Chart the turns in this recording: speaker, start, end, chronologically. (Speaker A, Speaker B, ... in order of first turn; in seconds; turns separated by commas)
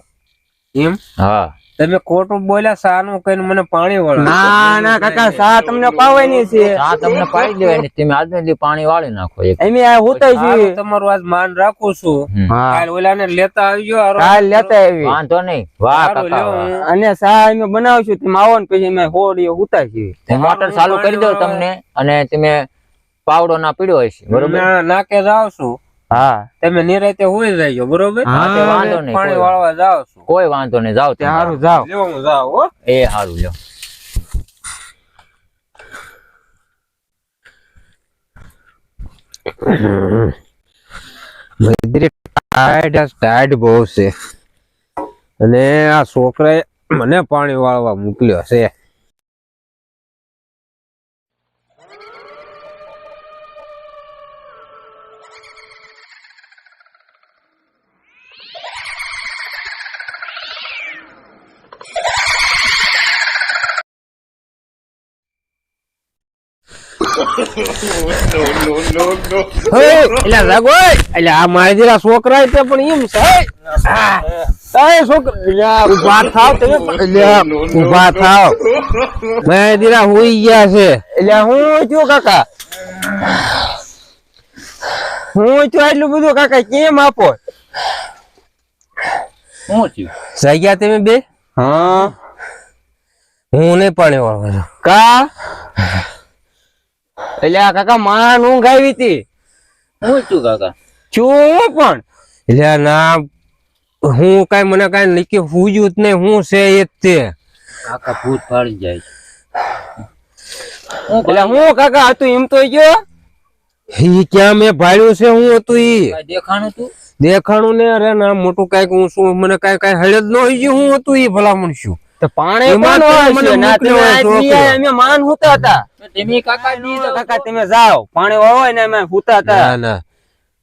Speaker A: 1.2-1.5, Speaker B: 1.8-5.4, Speaker C: 4.2-6.8, Speaker A: 6.7-9.6, Speaker C: 9.6-10.8, Speaker B: 10.1-14.7, Speaker C: 12.5-12.8, Speaker C: 14.2-15.2, Speaker A: 15.0-16.7, Speaker B: 15.9-16.8, Speaker C: 16.8-20.2, Speaker B: 20.3-21.6, Speaker A: 20.3-22.6, Speaker A: 23.2-24.6, Speaker B: 24.3-25.8, Speaker C: 26.1-26.5, Speaker B: 26.6-30.2, Speaker C: 28.2-29.0, Speaker A: 28.3-29.5, Speaker A: 30.3-31.6, Speaker C: 31.2-31.9, Speaker B: 31.7-32.7, Speaker A: 32.9-33.5, Speaker B: 39.6-40.3, Speaker B: 41.6-44.1, Speaker B: 45.4-48.7, Speaker B: 69.7-74.4, Speaker C: 74.7-77.5, Speaker B: 75.8-78.6, Speaker B: 79.4-81.0, Speaker C: 81.1-82.4, Speaker C: 85.3-87.4, Speaker A: 89.7-90.1, Speaker B: 90.3-91.2, Speaker C: 91.6-92.1, Speaker B: 93.5-94.7, Speaker C: 94.8-95.3, Speaker C: 97.4-99.2, Speaker A: 100.0-100.7, Speaker C: 101.1-102.0, Speaker B: 102.5-103.2, Speaker B: 104.0-107.3, Speaker A: 107.8-109.0, Speaker A: 111.1-111.6, Speaker C: 111.2-113.0, Speaker B: 113.9-116.2, Speaker A: 116.1-116.9, Speaker B: 117.2-122.0, Speaker C: 122.2-125.8, Speaker B: 122.6-124.8, Speaker A: 126.0-127.5, Speaker C: 126.7-129.7, Speaker B: 129.4-130.0